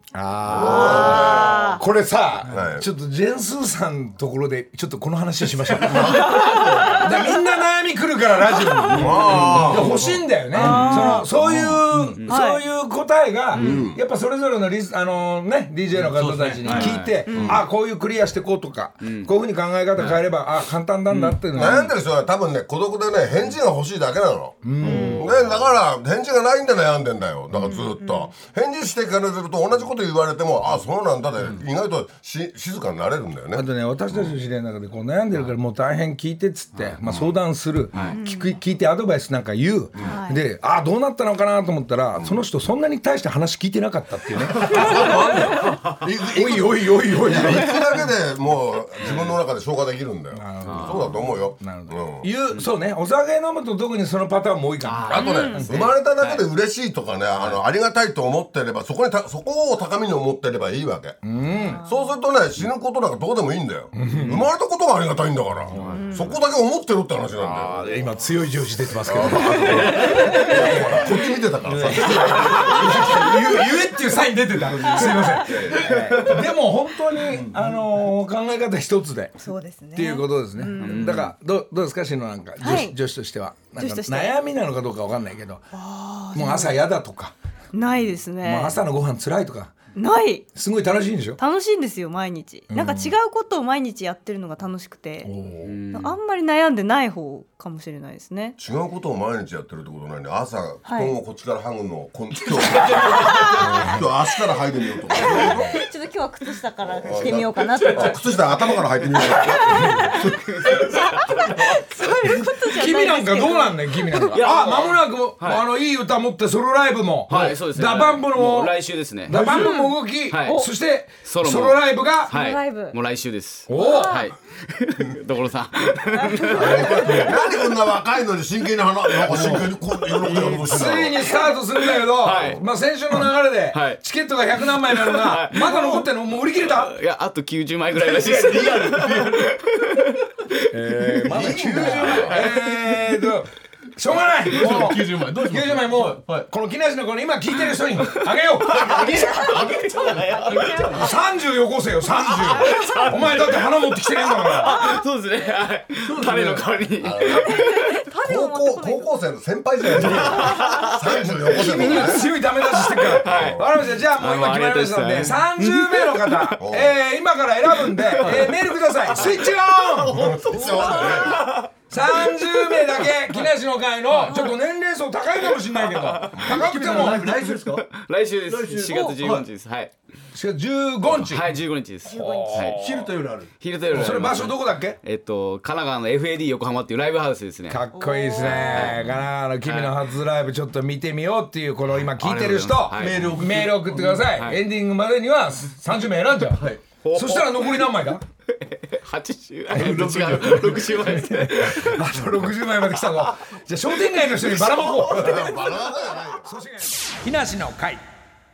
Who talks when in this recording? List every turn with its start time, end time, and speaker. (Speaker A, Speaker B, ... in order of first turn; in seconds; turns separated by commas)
Speaker A: 0.1-21.9, Speaker B: 0.4-1.8, Speaker C: 0.6-1.8, Speaker B: 2.5-2.9, Speaker B: 5.8-6.9, Speaker C: 6.1-7.3, Speaker D: 8.9-10.1, Speaker B: 8.9-10.1, Speaker E: 9.4-10.1, Speaker C: 10.5-11.3, Speaker D: 10.6-12.4, Speaker C: 12.3-12.6, Speaker B: 13.6-14.0, Speaker D: 13.6-13.9, Speaker E: 15.9-16.9, Speaker D: 16.6-17.6, Speaker C: 16.7-17.6, Speaker B: 17.3-17.6, Speaker D: 19.0-19.3, Speaker D: 20.0-20.2, Speaker D: 21.1-21.9, Speaker B: 21.5-34.3, Speaker A: 24.6-25.3, Speaker C: 24.8-25.2, Speaker D: 24.8-25.6, Speaker C: 27.7-28.3, Speaker A: 33.5-45.4, Speaker B: 37.0-37.3, Speaker D: 37.9-38.2, Speaker C: 38.1-38.6, Speaker C: 40.0-40.4, Speaker B: 44.6-52.3, Speaker C: 44.7-45.5, Speaker A: 46.3-48.0, Speaker D: 49.0-49.4, Speaker A: 50.3-55.8, Speaker D: 50.6-51.2, Speaker D: 54.8-56.5, Speaker B: 55.1-61.2, Speaker C: 55.1-55.6, Speaker D: 57.4-57.6, Speaker A: 61.2-61.8, Speaker C: 61.5-62.1, Speaker B: 61.8-67.8, Speaker A: 63.9-64.5, Speaker A: 65.7-66.1, Speaker D: 65.7-66.2, Speaker C: 65.9-66.4, Speaker A: 67.4-79.4, Speaker B: 69.0-73.3, Speaker D: 69.7-70.3, Speaker C: 69.8-70.6, Speaker C: 75.0-75.5, Speaker B: 75.4-75.8, Speaker D: 75.5-76.3, Speaker C: 79.4-81.2, Speaker A: 79.9-85.6, Speaker D: 80.8-81.3, Speaker C: 82.6-83.0, Speaker C: 83.8-84.4, Speaker C: 85.7-86.8, Speaker A: 86.3-87.3, Speaker C: 87.7-88.8, Speaker A: 88.4-89.8, Speaker C: 89.9-90.5, Speaker A: 90.5-91.4, Speaker C: 91.4-95.3, Speaker A: 92.7-93.2, Speaker A: 95.2-95.8, Speaker D: 95.6-96.2, Speaker C: 95.9-98.6, Speaker B: 98.6-105.8, Speaker C: 100.8-101.1, Speaker D: 102.8-103.2, Speaker C: 103.0-103.9, Speaker A: 103.6-104.0, Speaker C: 105.1-108.2, Speaker B: 107.0-110.0, Speaker D: 107.3-108.2, Speaker C: 109.4-114.4, Speaker A: 109.7-110.2, Speaker D: 110.2-111.6, Speaker A: 112.6-118.8, Speaker D: 114.3-115.6, Speaker D: 117.3-119.7, Speaker A: 119.3-122.3, Speaker C: 119.4-120.7, Speaker D: 120.3-120.7, Speaker D: 121.2-127.4, Speaker C: 122.3-123.0, Speaker A: 123.7-124.2, Speaker C: 123.7-124.2, Speaker C: 126.1-127.4, Speaker B: 126.5-131.2, Speaker A: 126.6-127.3, Speaker D: 129.2-129.6, Speaker A: 129.4-129.6, Speaker D: 130.2-130.9, Speaker A: 130.6-137.0, Speaker D: 131.8-132.6, Speaker D: 133.7-134.0, Speaker D: 134.6-136.1, Speaker D: 136.6-143.0, Speaker E: 138.0-139.6, Speaker A: 140.7-149.6, Speaker B: 141.3-142.4, Speaker E: 144.3-146.5, Speaker D: 148.6-151.1, Speaker C: 149.0-151.1, Speaker E: 149.5-150.9, Speaker A: 150.9-154.8, Speaker D: 152.3-157.9, Speaker C: 152.6-153.1, Speaker C: 154.6-155.0, Speaker E: 156.1-156.6, Speaker B: 157.0-162.3, Speaker C: 157.3-159.1, Speaker D: 159.9-162.1, Speaker C: 160.1-160.9, Speaker A: 161.5-170.4, Speaker D: 162.8-166.6, Speaker B: 163.2-163.7, Speaker B: 166.6-167.0, Speaker D: 167.9-168.5, Speaker D: 170.1-171.7, Speaker B: 170.1-171.5, Speaker C: 170.5-171.4, Speaker A: 171.9-177.5, Speaker D: 172.5-173.0, Speaker C: 174.3-174.5, Speaker D: 175.8-179.9, Speaker E: 176.3-177.9, Speaker E: 178.5-179.5, Speaker A: 180.3-181.5, Speaker D: 181.1-182.8, Speaker A: 182.1-183.1, Speaker C: 182.1-182.6, Speaker E: 182.7-183.5, Speaker D: 183.6-187.9, Speaker A: 183.9-185.0, Speaker A: 187.7-198.2, Speaker C: 187.9-189.0, Speaker D: 188.4-190.0, Speaker D: 192.0-193.3, Speaker E: 193.0-194.3, Speaker D: 194.3-194.6, Speaker E: 196.6-196.8, Speaker D: 197.0-202.1, Speaker A: 199.7-205.5, Speaker E: 199.7-201.0, Speaker B: 205.0-206.5, Speaker A: 206.4-208.0